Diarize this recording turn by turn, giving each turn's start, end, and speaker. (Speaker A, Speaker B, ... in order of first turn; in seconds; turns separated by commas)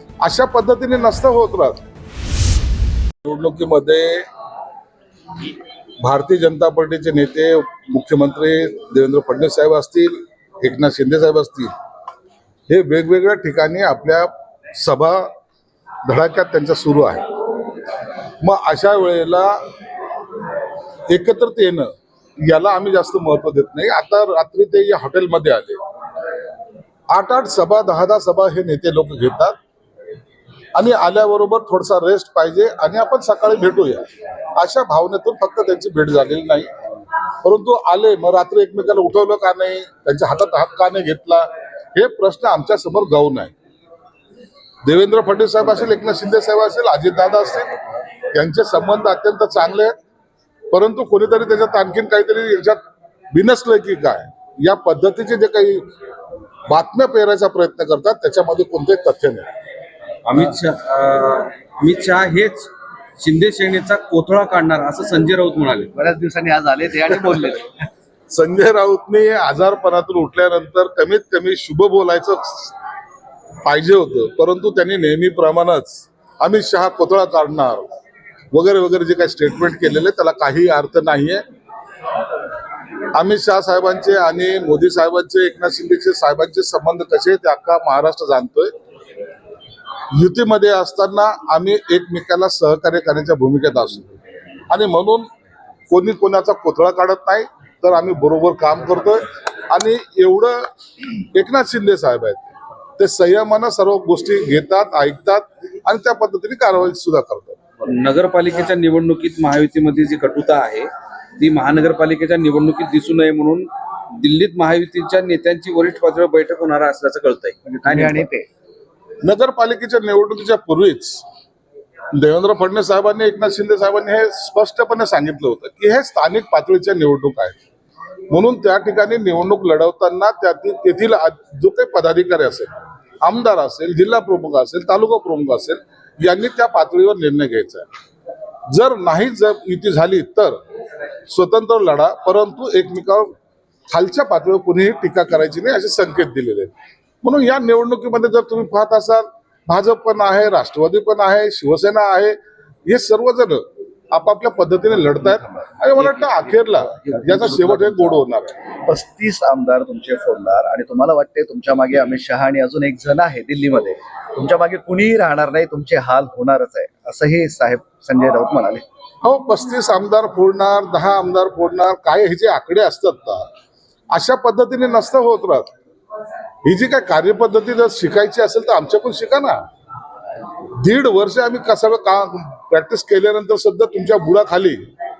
Speaker A: 0.2-1.8, Speaker A: 3.2-4.3, Speaker A: 6.0-11.7, Speaker A: 12.7-15.3, Speaker A: 16.1-17.3, Speaker A: 18.4-19.6, Speaker A: 21.1-21.9, Speaker A: 22.4-25.8, Speaker A: 27.1-29.6, Speaker A: 30.8-36.7, Speaker A: 37.4-43.5, Speaker A: 44.8-47.8, Speaker A: 48.3-50.0, Speaker A: 50.7-52.8, Speaker A: 53.3-55.9, Speaker A: 56.7-59.5, Speaker B: 60.2-65.9, Speaker C: 66.0-67.7, Speaker A: 68.3-72.8, Speaker A: 73.6-77.9, Speaker A: 78.5-81.4, Speaker A: 83.1-88.7, Speaker A: 90.1-94.2, Speaker A: 94.7-95.3, Speaker A: 95.9-100.7, Speaker A: 101.3-107.6, Speaker B: 107.8-118.2, Speaker C: 117.7-118.5, Speaker A: 119.2-121.2, Speaker A: 122.1-127.6, Speaker A: 128.3-132.7, Speaker A: 133.2-137.9, Speaker A: 138.7-140.6, Speaker A: 141.3-143.3, Speaker A: 143.9-158.6, Speaker C: 155.5-158.2, Speaker C: 158.9-168.8, Speaker A: 169.2-173.5, Speaker A: 174.1-175.7, Speaker A: 176.6-179.6, Speaker A: 180.7-184.8